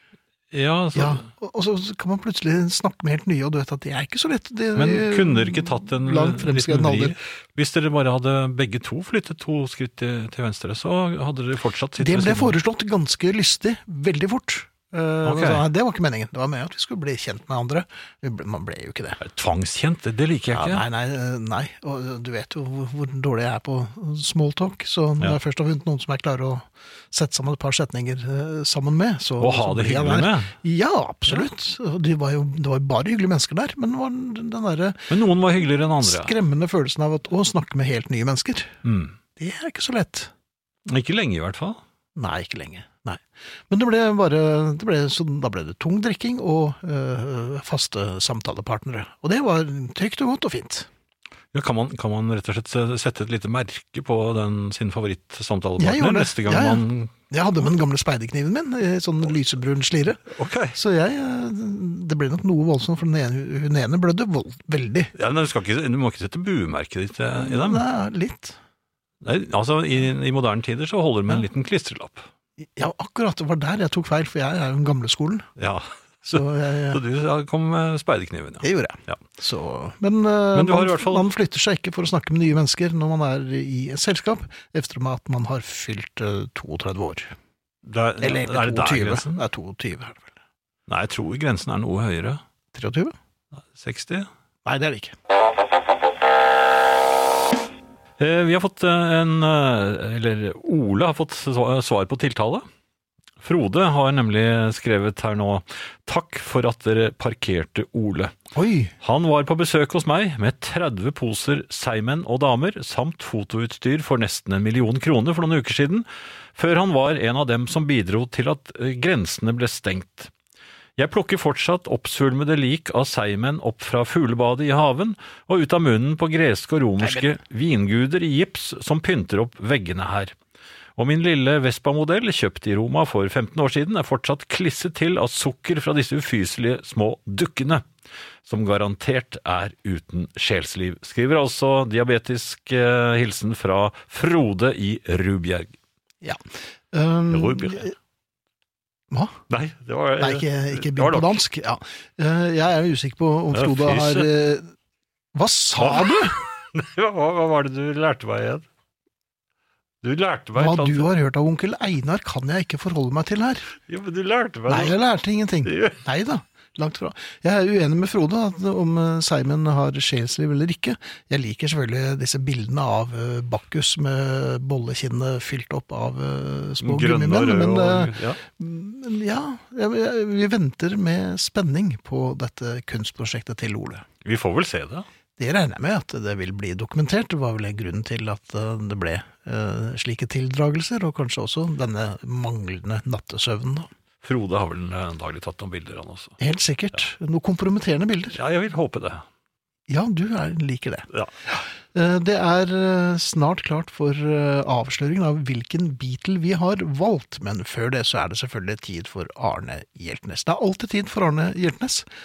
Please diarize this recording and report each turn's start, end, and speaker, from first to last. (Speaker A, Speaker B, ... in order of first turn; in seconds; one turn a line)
Speaker A: 0.5-1.3
Speaker B: 0.9-7.2
Speaker A: 4.7-12.6
Speaker B: 12.0-19.2
Speaker A: 15.2-15.6
Speaker A: 19.2-20.8
Speaker B: 20.5-35.1
Speaker A: 29.4-30.5
Speaker A: 35.1-36.3
Speaker B: 36.0-38.8
Speaker A: 38.8-39.1
Speaker B: 39.4-40.3
Speaker A: 40.9-41.8
Speaker B: 42.1-50.9
Speaker A: 51.5-57.1
Speaker B: 55.8-60.2
Speaker A: 60.3-60.8
Speaker B: 60.8-65.1
Speaker A: 65.1-67.8
Speaker B: 67.3-68.6
Speaker A: 69.2-72.2
Speaker B: 72.6-75.5
Speaker A: 75.6-79.2
Speaker B: 76.2-77.0
Speaker B: 78.6-87.3
Speaker A: 80.5-81.3
Speaker A: 87.8-89.4
Speaker B: 88.2-90.3
Speaker A: 90.9-92.4
Speaker B: 92.7-93.1
Speaker A: 93.7-94.3
Speaker B: 94.6-95.1
Speaker A: 98.2-102.6
Speaker A: 103.4-108.3
Speaker B: 108.5-108.9
Speaker A: 109.0-120.3
Speaker A: 121.0-130.3
Speaker A: 131.0-137.8
Speaker A: 138.4-145.7
Speaker B: 146.2-147.9
Speaker A: 147.3-147.8
Speaker B: 149.1-149.4
Speaker A: 149.5-151.4
Speaker B: 150.2-154.7
Speaker A: 153.5-154.3
Speaker B: 155.3-156.4
Speaker A: 155.8-158.7
Speaker A: 160.0-161.1
Speaker B: 160.6-163.7
Speaker A: 163.9-164.9
Speaker B: 164.7-184.1
Speaker A: 165.7-166.0
Speaker A: 176.8-178.4
Speaker A: 184.2-185.1
Speaker B: 185.4-193.9
Speaker A: 194.2-196.4
Speaker B: 196.4-198.4
Speaker A: 198.3-199.2
Speaker B: 199.9-212.0